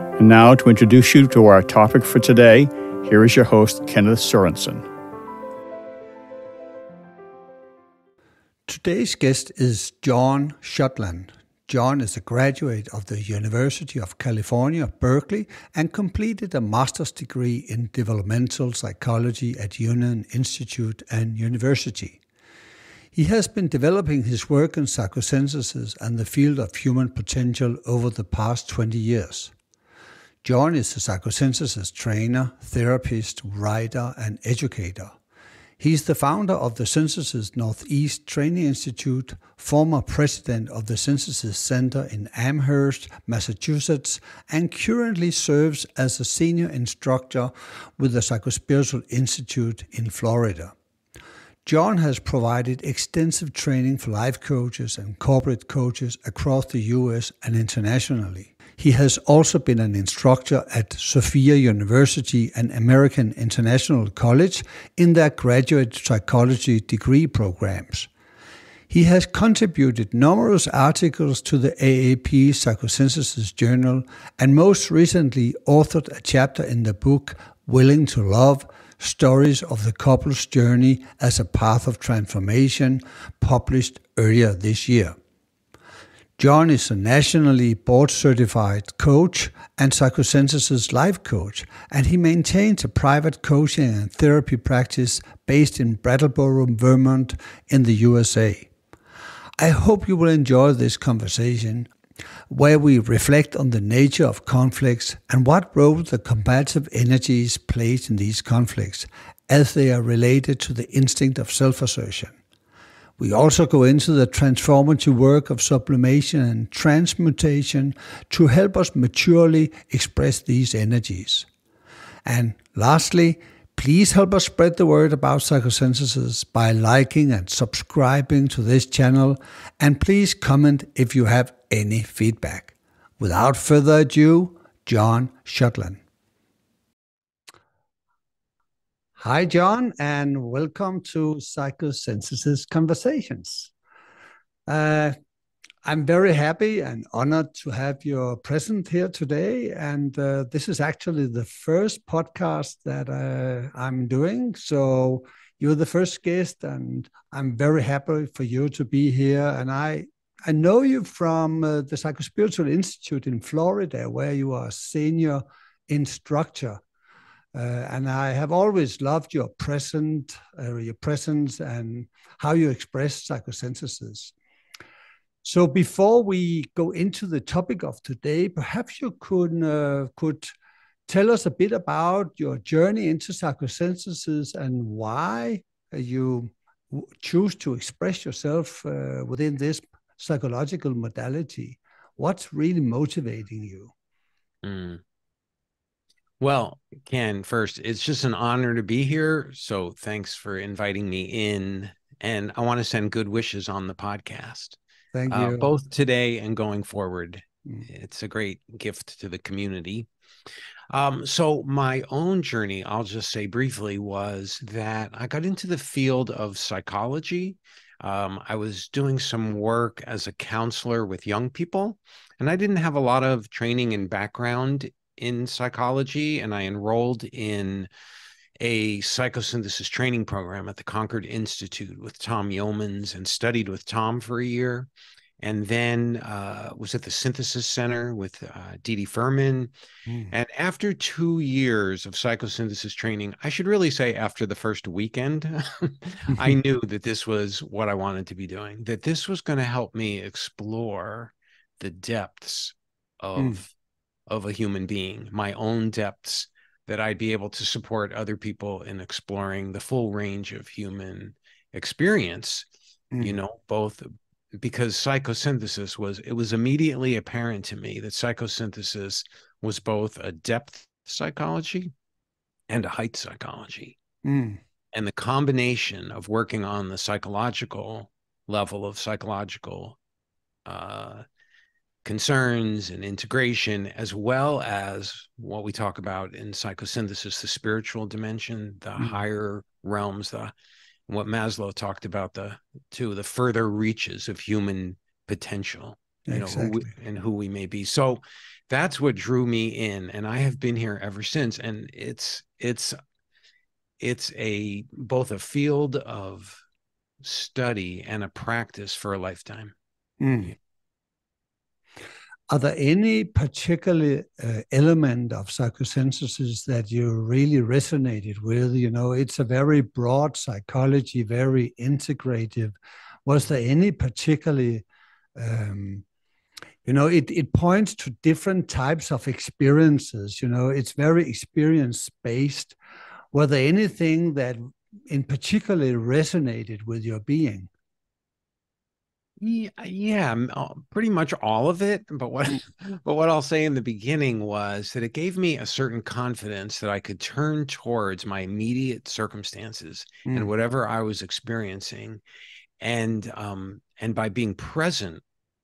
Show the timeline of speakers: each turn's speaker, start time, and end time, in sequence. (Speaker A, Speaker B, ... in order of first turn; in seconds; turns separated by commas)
Speaker A: 0.2-4.8, Speaker B: 8.7-22.2, Speaker B: 23.1-29.5, Speaker B: 30.4-35.1, Speaker B: 35.8-50.7, Speaker B: 51.6-68.1, Speaker B: 68.9-85.2, Speaker B: 86.4-98.7, Speaker B: 99.6-101.9, Speaker B: 102.5-112.3, Speaker B: 113.2-121.5, Speaker B: 122.2-136.0, Speaker B: 139.2-143.7, Speaker B: 144.7-145.1, Speaker B: 145.8-166.8, Speaker B: 167.5-174.3, Speaker B: 175.4-180.5, Speaker B: 181.1-193.9, Speaker C: 194.6-195.0, Speaker C: 196.4-204.8, Speaker B: 205.1-205.7, Speaker C: 205.3-210.1, Speaker C: 210.9-227.9, Speaker C: 228.6-239.7, Speaker B: 240.1-240.3, Speaker C: 240.3-253.7, Speaker C: 254.3-262.7, Speaker B: 263.1-263.4, Speaker C: 263.2-271.9, Speaker C: 272.7-274.0, Speaker B: 274.2-274.6, Speaker C: 274.9-280.0, Speaker C: 280.6-281.2, Speaker C: 282.0-290.5, Speaker C: 291.1-302.9, Speaker B: 296.3-296.9, Speaker C: 304.0-306.6, Speaker C: 307.2-309.7, Speaker B: 310.2-310.5, Speaker B: 312.5-322.7, Speaker B: 323.2-324.8, Speaker B: 325.4-326.0, Speaker B: 326.8-332.8, Speaker B: 333.3-337.7, Speaker C: 339.4-352.2, Speaker C: 352.8-355.2